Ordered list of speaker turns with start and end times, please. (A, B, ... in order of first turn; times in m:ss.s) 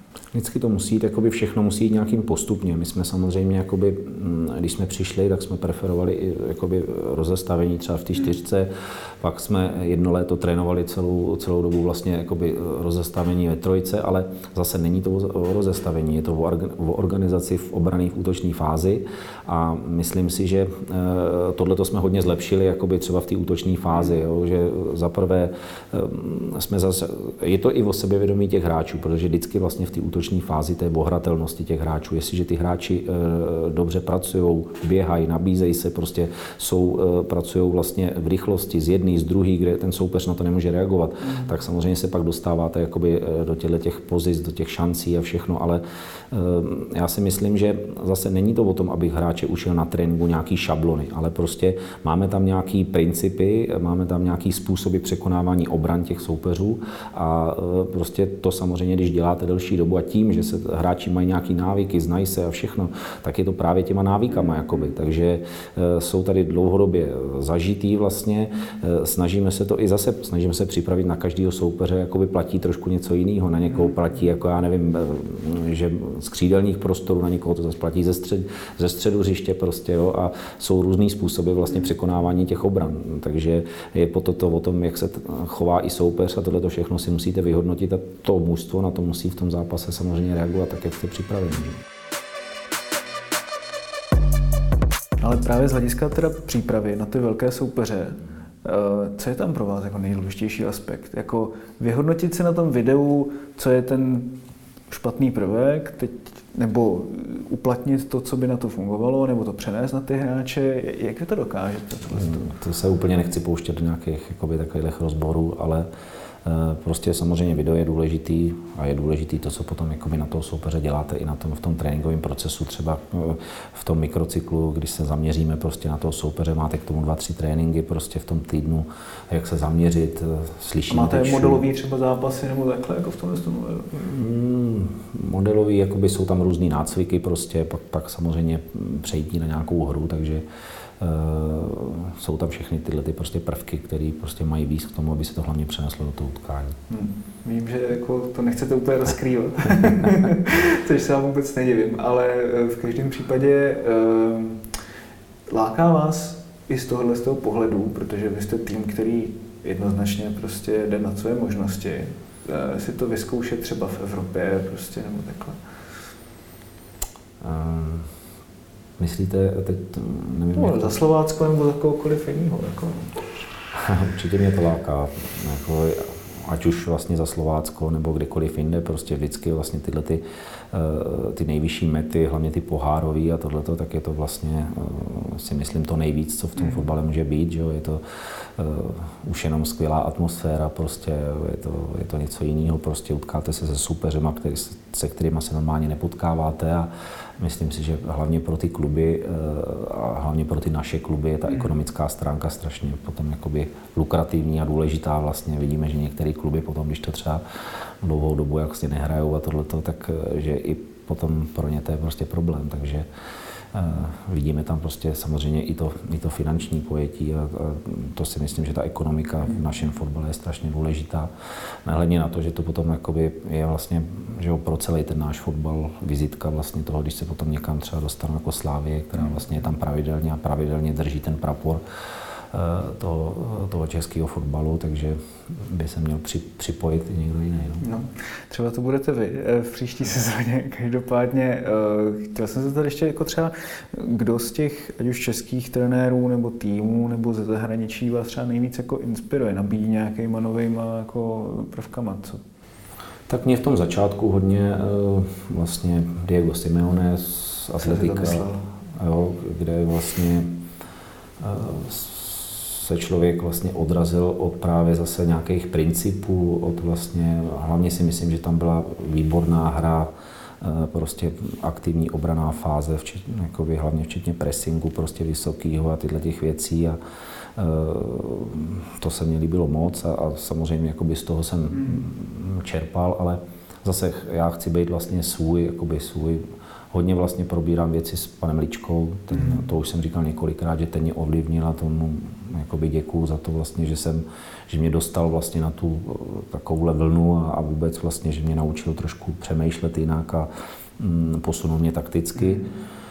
0:00.3-1:31.8 A
1:35.2-1:44.4 B
1:44.9-1:52.5 B
1:52.1-1:55.9 A
1:56.4-2:11.6 A
2:10.9-2:13.9 B
2:13.9-2:20.4 A
2:21.0-2:26.8 A
2:26.9-2:34.6 B
2:35.5-2:45.6 B
2:47.4-2:48.1 A
2:49.0-2:50.9 A
2:50.5-2:53.4 B
2:53.7-3:08.0 A
3:08.6-3:27.4 A
3:28.0-3:33.1 A
3:33.7-3:41.3 A
3:41.8-3:51.8 A
3:52.5-3:57.8 A
3:57.8-4:12.4 B
4:13.3-4:20.5 A
4:17.8-4:18.6 B
4:21.4-4:30.1 A
4:30.6-4:37.0 A
4:37.6-5:02.6 A